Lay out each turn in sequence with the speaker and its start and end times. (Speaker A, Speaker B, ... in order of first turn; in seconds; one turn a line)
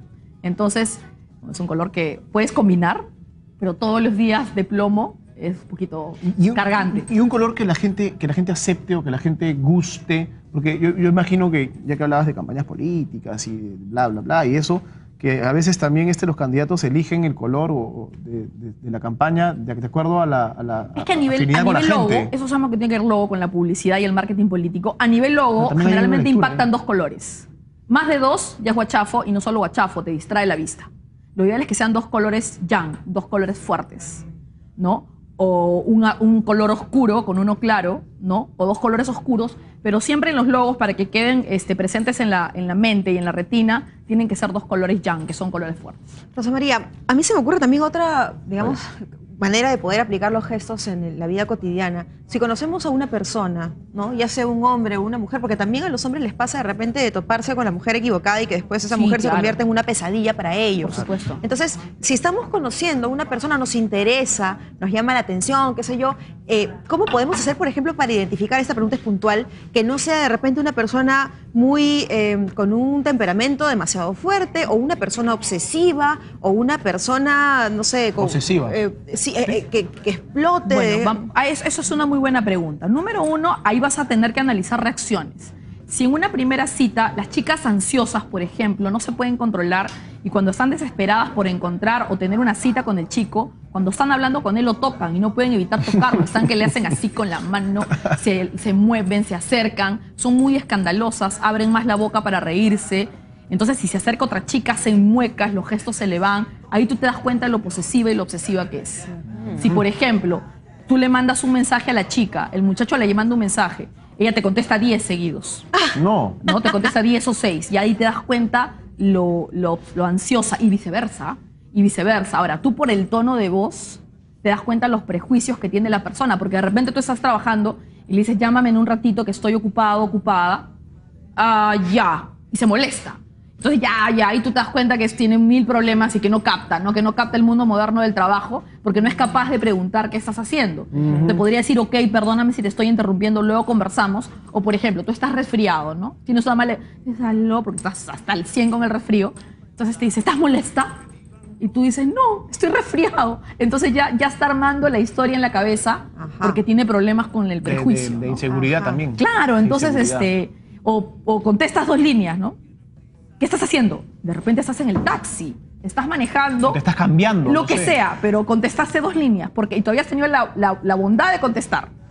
Speaker A: 0.4-3.0
Speaker A: 3.6-7.1
Speaker B: 6.2-22.3
Speaker A: 20.9-34.2
Speaker B: 25.6-26.7
Speaker A: 34.8-46.0
Speaker C: 46.4-81.2
Speaker A: 58.9-59.6
Speaker A: 60.8-61.4
Speaker B: 78.2-78.8
Speaker A: 80.7-115.7
Speaker B: 115.9-116.4
Speaker A: 116.4-130.7
Speaker A: 131.4-150.9
Speaker B: 140.9-141.4
Speaker A: 151.6-158.5
Speaker C: 156.2-156.6
Speaker B: 157.6-160.3
Speaker C: 158.5-159.0
Speaker A: 159.1-162.6
Speaker A: 163.4-166.8
Speaker B: 166.6-168.0
Speaker A: 167.4-171.9